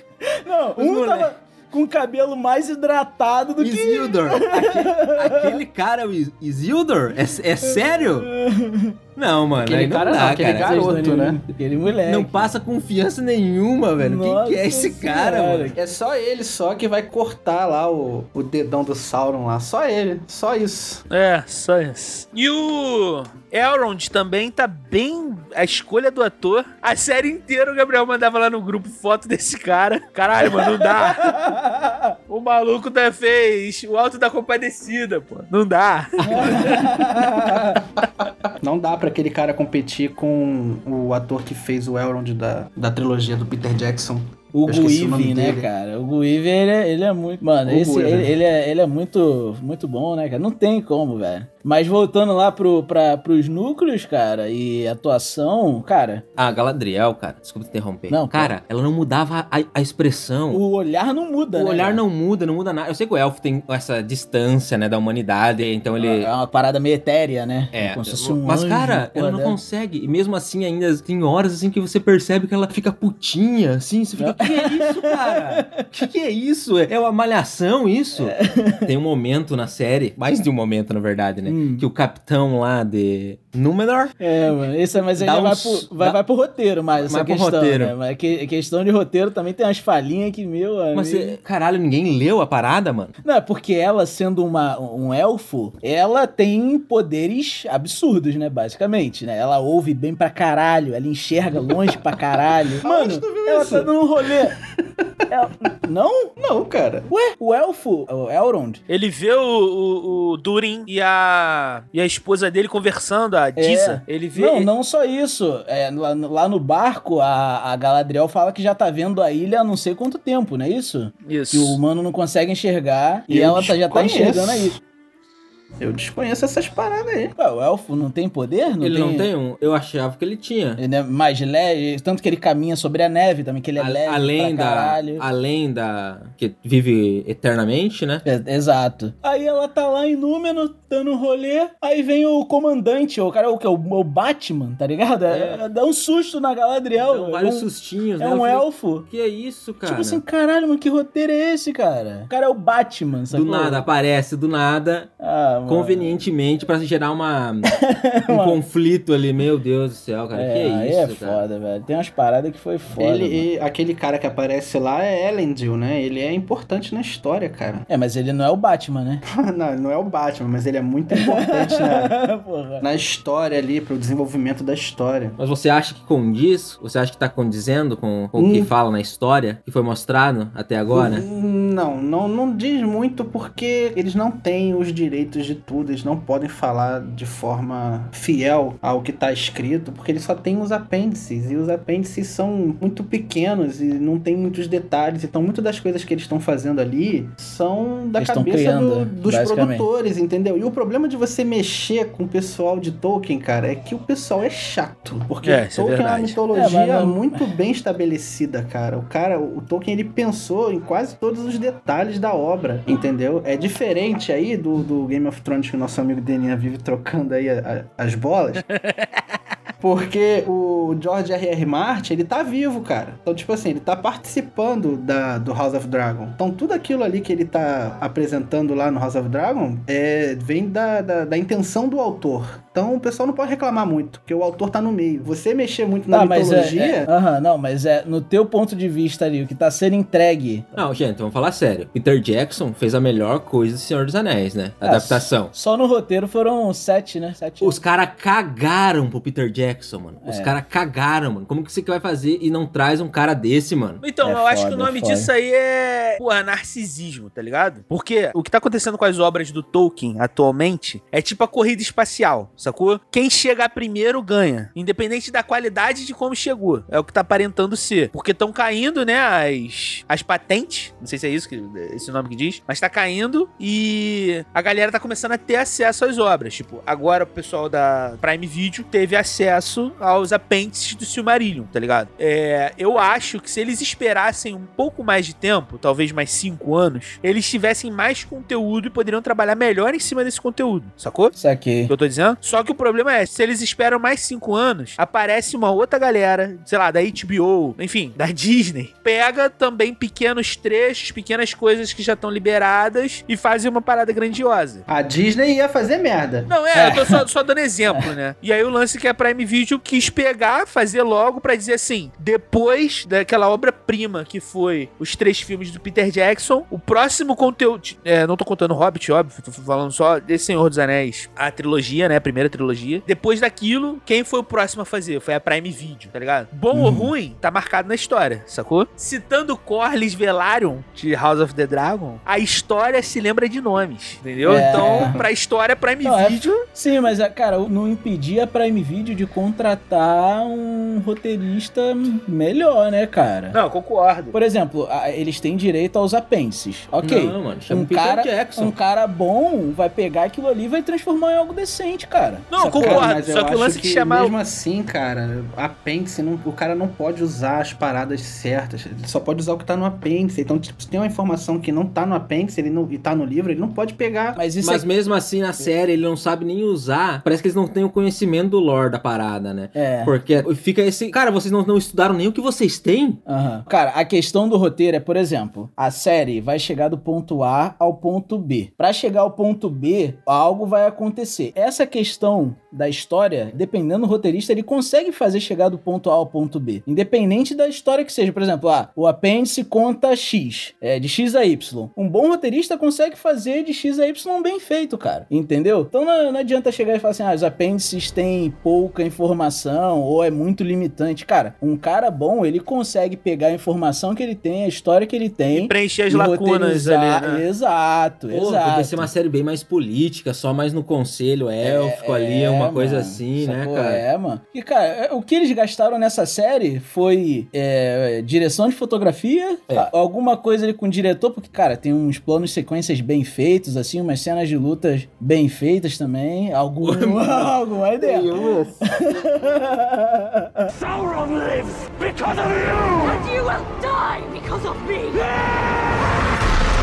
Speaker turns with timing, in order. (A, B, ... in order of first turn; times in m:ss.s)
0:00.3-0:05.6 A
0:00.8-0:01.3 B
0:03.6-0:08.3 B
0:07.6-0:09.0 A
0:09.2-0:11.0 B
0:09.6-0:11.4 C
0:10.6-0:12.5 A
0:12.0-0:15.8 B
0:14.0-0:15.8 A
0:15.8-0:21.0 C
0:21.1-0:31.4 D
0:30.5-0:32.1 A
0:32.3-0:36.9 D
0:36.2-0:36.6 B
0:36.2-0:37.8 A
0:37.3-0:45.7 C
0:44.5-0:56.2 A
0:47.7-0:48.3 C
0:56.4-1:00.6 B
0:58.1-0:58.5 A
1:00.5-1:02.0 A
1:01.5-1:06.3 B
1:06.0-1:09.6 A
1:07.7-1:24.1 B
1:14.2-1:15.9 A
1:18.2-1:18.9 A
1:21.5-1:21.9 A
1:24.2-1:31.4 A
1:25.0-1:26.2 B
1:27.0-1:28.0 B
1:30.9-1:33.2 B
1:33.2-1:44.6 A
1:42.8-1:43.9 C
1:45.3-1:46.4 A
1:46.4-1:47.1 C
1:47.1-1:48.8 A
1:48.9-1:54.7 D
1:53.6-2:04.8 A
2:01.3-2:01.8 D
2:03.3-2:04.8 C
2:05.8-2:07.4 C
2:07.4-2:09.3 A
2:08.8-2:10.8 B
2:10.8-2:15.2 A
2:13.8-2:18.2 B
2:18.2-2:29.1 A
2:25.3-2:25.6 B
2:27.0-2:30.2 B
2:29.8-2:33.9 A
2:33.3-2:35.1 B
2:35.2-2:36.2 A
2:35.7-2:41.4 B
2:37.7-2:38.6 A
2:40.3-2:43.5 A
2:42.9-2:47.9 C
2:47.9-2:49.2 A
2:49.3-2:52.2 C
2:51.2-2:52.8 A
2:52.8-2:55.4 C
2:55.4-3:01.2 B
2:58.4-2:58.7 C
3:00.9-3:38.7 C
3:18.2-3:19.9 A
3:25.4-3:26.4 D
3:26.5-3:27.4 A
3:38.8-3:39.2 D
3:39.8-3:57.1 C
3:56.1-4:00.8 A
4:00.8-4:05.5 B
4:04.8-4:07.8 A
4:07.6-4:14.0 B
4:10.2-4:10.6 A
4:14.0-4:51.3 D
4:14.2-4:15.3 A
4:51.4-4:51.9 A
4:51.9-5:04.8 D
5:04.9-5:06.5 C
5:06.5-5:36.6 D
5:06.7-5:07.2 A
5:26.8-5:27.0 A
5:34.4-5:35.2 A
5:34.8-5:35.2 C
5:36.0-5:43.6 A
5:43.5-5:44.4 D
5:44.3-5:53.1 A
5:47.0-5:48.8 B
5:52.5-5:54.4 D
5:52.8-6:04.4 C
6:04.4-6:04.9 A
6:04.6-6:13.2 B
6:09.8-6:10.1 A
6:13.3-6:49.1 A
6:45.5-6:47.4 D
6:48.3-6:54.0 B
6:51.6-7:10.7 A
7:06.8-7:09.1 B
7:10.7-7:16.1 E